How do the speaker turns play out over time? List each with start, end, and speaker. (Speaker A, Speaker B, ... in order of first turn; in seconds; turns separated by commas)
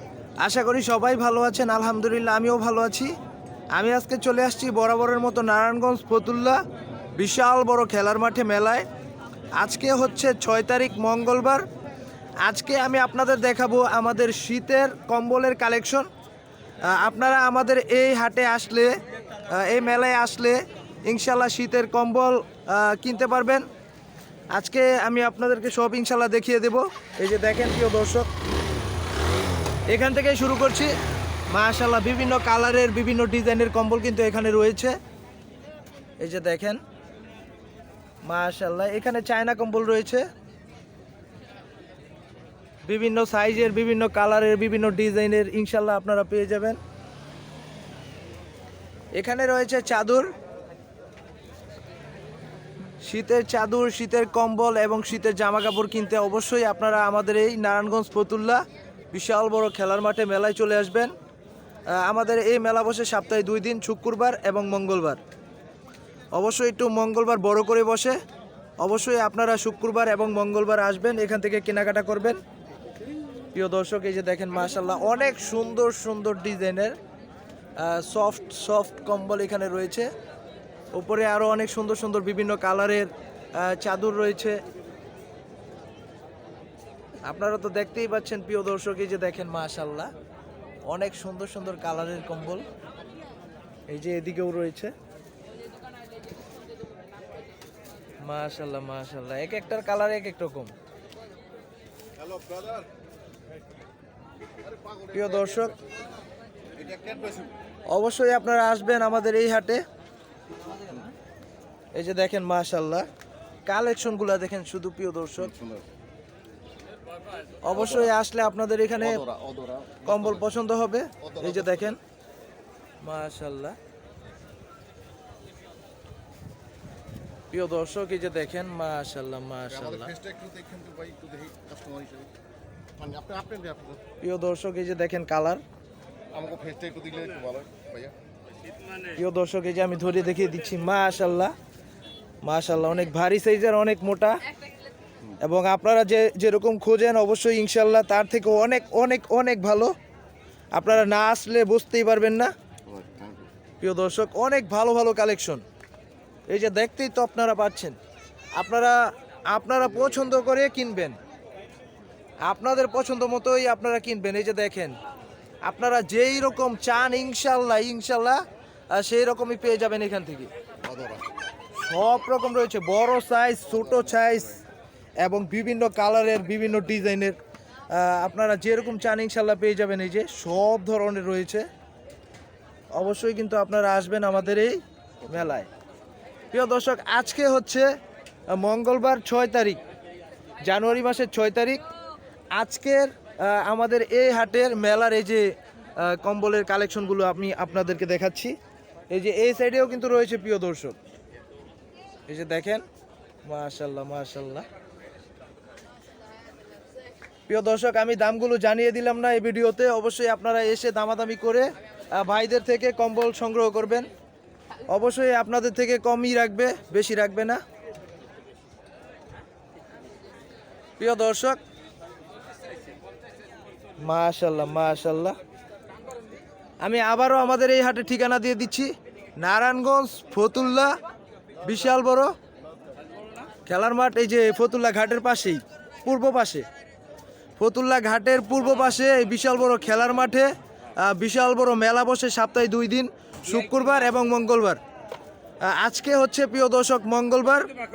Speaker A: 0.4-3.1, Speaker A: 3.7-6.6, Speaker A: 7.2-8.9, Speaker A: 9.6-11.7, Speaker A: 12.4-16.1, Speaker A: 16.9-23.7, Speaker A: 24.5-28.3, Speaker A: 29.9-30.9, Speaker A: 31.5-35.0, Speaker A: 36.2-36.8, Speaker A: 38.2-40.3, Speaker A: 42.9-46.8, Speaker A: 49.2-50.3, Speaker A: 53.0-61.1, Speaker A: 61.9-65.2, Speaker A: 66.3-68.2, Speaker A: 68.8-72.4, Speaker A: 73.5-77.0, Speaker A: 77.8-80.1, Speaker A: 80.9-84.6, Speaker A: 87.3-90.1, Speaker A: 90.9-92.7, Speaker A: 93.9-94.9, Speaker A: 98.2-100.7, Speaker B: 104.7-105.0, Speaker A: 105.1-105.8, Speaker B: 106.8-107.5, Speaker A: 107.9-109.8, Speaker A: 112.0-113.1, Speaker A: 113.7-115.7, Speaker A: 117.6-119.2, Speaker B: 119.2-120.1, Speaker A: 120.0-122.0, Speaker A: 123.0-123.8, Speaker A: 127.5-130.1, Speaker B: 130.1-132.3, Speaker B: 133.0-134.0, Speaker A: 134.2-135.6, Speaker B: 136.3-138.1, Speaker A: 139.2-141.5, Speaker A: 142.4-144.4, Speaker A: 145.4-149.9, Speaker A: 150.8-152.5, Speaker B: 152.9-153.4, Speaker A: 153.8-155.6, Speaker A: 156.5-158.0, Speaker A: 158.6-161.2, Speaker A: 162.4-165.0, Speaker A: 165.6-170.5, Speaker B: 170.8-171.2, Speaker A: 171.8-174.6, Speaker A: 175.2-177.4, Speaker A: 177.9-181.7, Speaker A: 182.9-185.7, Speaker A: 186.5-187.9, Speaker A: 188.5-189.8, Speaker A: 190.7-191.8, Speaker A: 192.6-198.6, Speaker A: 199.1-201.0, Speaker A: 202.3-202.8, Speaker A: 203.5-204.7, Speaker A: 207.5-214.1, Speaker A: 214.9-217.6, Speaker A: 221.0-221.6, Speaker A: 224.0-225.4, Speaker A: 226.8-231.0, Speaker A: 231.6-232.3, Speaker A: 233.7-236.7, Speaker A: 237.6-244.8, Speaker A: 245.6-247.7